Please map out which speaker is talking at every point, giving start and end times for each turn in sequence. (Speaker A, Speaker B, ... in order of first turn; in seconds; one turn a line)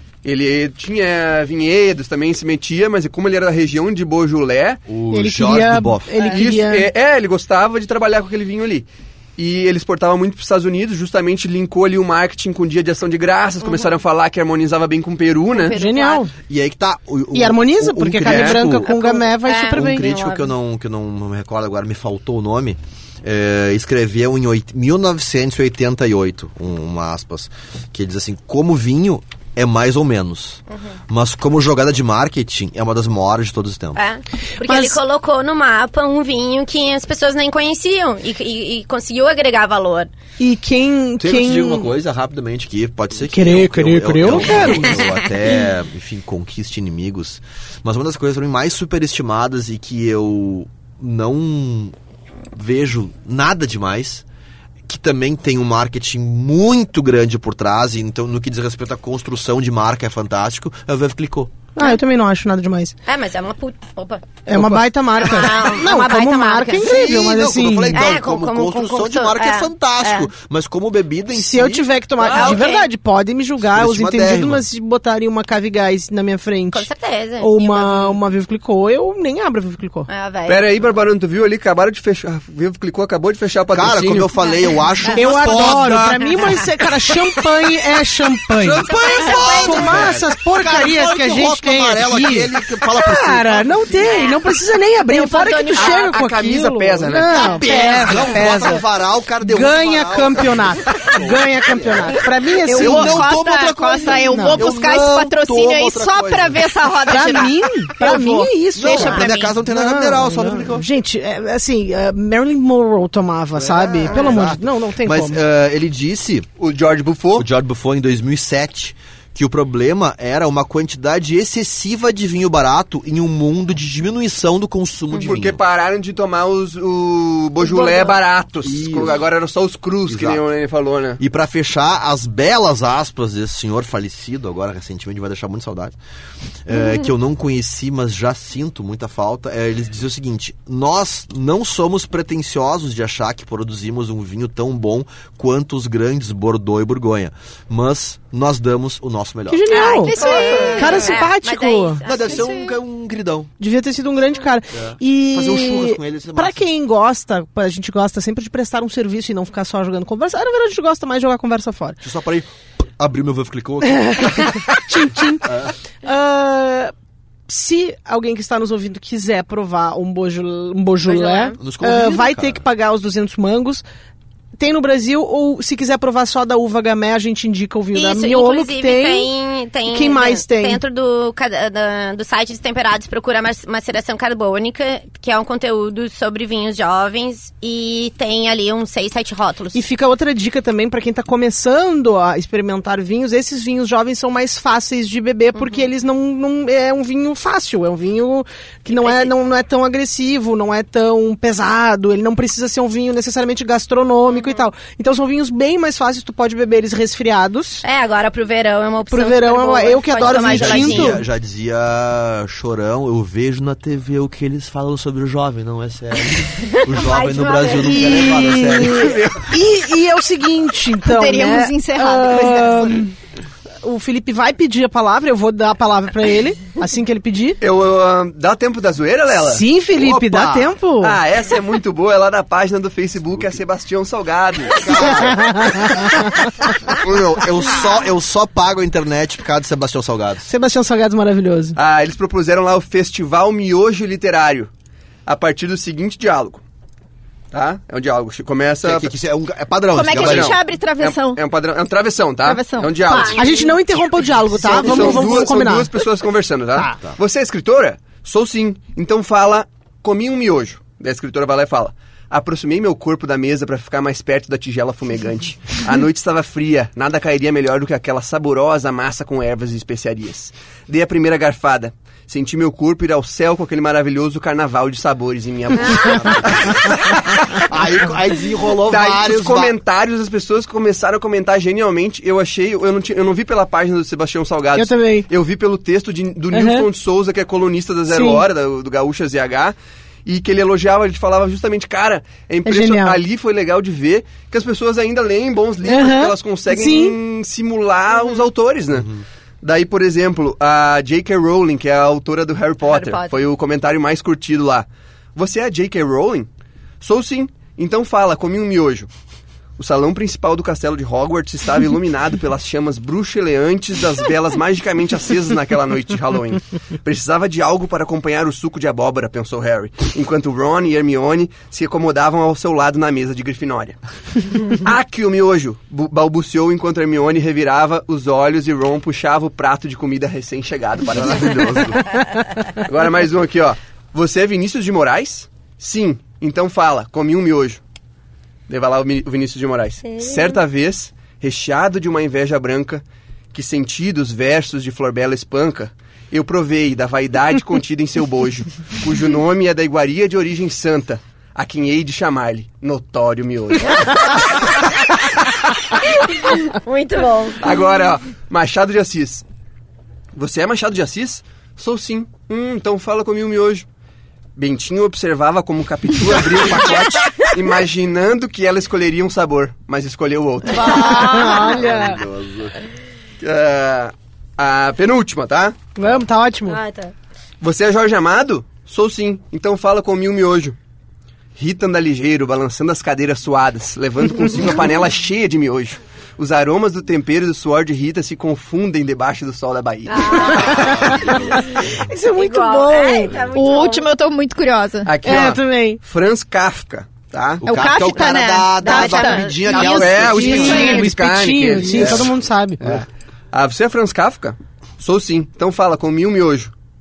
Speaker A: 0.2-4.8
Speaker B: 4.9-6.2
Speaker C: 5.1-6.9
Speaker A: 6.2-15.8
Speaker D: 15.5-16.3
Speaker C: 15.7-16.3
Speaker B: 16.5-18.9
Speaker C: 17.3-20.1
Speaker A: 18.2-18.6
Speaker D: 18.9-20.5
Speaker B: 19.6-34.0
Speaker D: 34.0-40.1
Speaker C: 34.7-35.0
Speaker C: 40.4-41.9
Speaker B: 41.2-52.0
Speaker C: 43.3-45.0
Speaker D: 44.3-45.1
Speaker B: 52.5-54.2
Speaker B: 54.9-61.5
Speaker C: 61.8-63.0
Speaker D: 63.1-64.5
Speaker C: 64.5-68.1
Speaker D: 65.1-67.2
Speaker B: 66.8-71.9
Speaker D: 67.9-70.3
Speaker C: 71.3-76.9
Speaker A: 72.2-72.6
Speaker D: 72.3-72.9
Speaker B: 73.6-74.6
Speaker D: 76.7-78.2
Speaker C: 77.4-80.1
Speaker D: 80.1-80.8
Speaker A: 80.5-84.3
Speaker B: 83.7-86.1
Speaker D: 84.4-85.3
Speaker C: 85.1-98.8
Speaker A: 85.3-86.2
Speaker B: 88.6-94.2
Speaker A: 88.9-89.5
Speaker D: 88.9-90.1
Speaker D: 94.0-94.4
Speaker D: 95.1-96.0
Speaker A: 95.7-97.6
Speaker B: 97.3-107.1
Speaker D: 97.6-98.0
Speaker C: 99.4-103.3
Speaker E: 102.6-109.5
Speaker C: 104.2-104.7
Speaker C: 107.1-115.4
Speaker B: 108.8-110.9
Speaker B: 113.5-116.5
Speaker A: 116.6-117.5
Speaker B: 117.4-125.6
Speaker D: 125.1-125.4
Speaker A: 125.2-131.2
Speaker C: 127.8-128.1
Speaker B: 128.6-129.2
Speaker B: 130.1-130.4
Speaker B: 131.2-136.0
Speaker B: 136.6-149.7
Speaker C: 149.5-152.0
Speaker E: 149.7-151.3
Speaker D: 149.7-152.6
Speaker B: 152.0-153.5
Speaker E: 152.2-152.7
Speaker C: 153.6-162.0
Speaker B: 154.7-156.6
Speaker B: 162.0-164.7
Speaker C: 164.0-166.9
Speaker B: 165.4-165.7
Speaker C: 167.5-173.8
Speaker D: 171.1-171.6
Speaker B: 171.6-172.6
Speaker C: 174.6-179.3
Speaker D: 177.9-189.8
Speaker C: 179.9-180.8
Speaker C: 189.7-207.8
Speaker D: 195.6-195.9
Speaker D: 198.9-199.3
Speaker D: 204.3-204.6
Speaker D: 207.8-211.2
Speaker C: 209.1-211.2
Speaker B: 210.2-219.2
Speaker D: 216.6-218.8
Speaker C: 217.8-223.1
Speaker A: 218.9-219.5
Speaker E: 221.0-223.1
Speaker C: 223.8-227.6
Speaker A: 227.6-229.6
Speaker C: 229.3-231.2
Speaker B: 229.9-230.7
Speaker A: 231.0-235.2
Speaker B: 234.7-236.1
Speaker C: 235.2-236.4
Speaker B: 236.9-240.5
Speaker C: 240.5-241.8
Speaker A: 241.8-244.7
Speaker A: 245.3-246.6
Speaker A: 247.5-249.1
Speaker B: 248.8-250.6
Speaker E: 249.9-251.4
Speaker A: 250.1-253.4
Speaker E: 252.4-253.4
Speaker D: 253.1-253.8
Speaker C: 253.3-255.9
Speaker A: 254.6-277.7
Speaker D: 254.8-255.3
Speaker B: 276.1-276.9
Speaker B: 277.5-279.8
Speaker A: 278.8-306.5
Speaker C: 284.8-285.3
Speaker C: 286.5-286.9
Speaker C: 288.1-288.4
Speaker C: 292.6-293.2
Speaker C: 295.9-297.2
Speaker D: 302.9-303.3
Speaker A: 307.0-309.1
Speaker A: 309.8-324.0
Speaker A: 324.6-332.1
Speaker B: 331.3-331.8
Speaker A: 332.7-337.8
Speaker A: 338.7-355.8
Speaker D: 340.1-340.6
Speaker D: 356.1-357.7
Speaker A: 357.6-359.4
Speaker A: 360.3-363.9
Speaker A: 364.6-371.5
Speaker C: 370.7-372.2
Speaker D: 371.0-371.7
Speaker B: 371.5-372.8
Speaker A: 373.4-375.8
Speaker C: 375.9-376.8
Speaker D: 376.6-377.1
Speaker A: 377.6-380.8
Speaker A: 381.6-391.4
Speaker D: 390.1-391.6
Speaker C: 390.6-393.4
Speaker D: 392.3-394.1
Speaker E: 393.5-395.1
Speaker A: 395.1-397.6
Speaker C: 395.2-396.0
Speaker B: 397.6-401.0
Speaker E: 397.6-401.0
Speaker D: 398.8-399.9
Speaker C: 399.6-402.8
Speaker A: 399.7-406.7
Speaker B: 401.9-402.3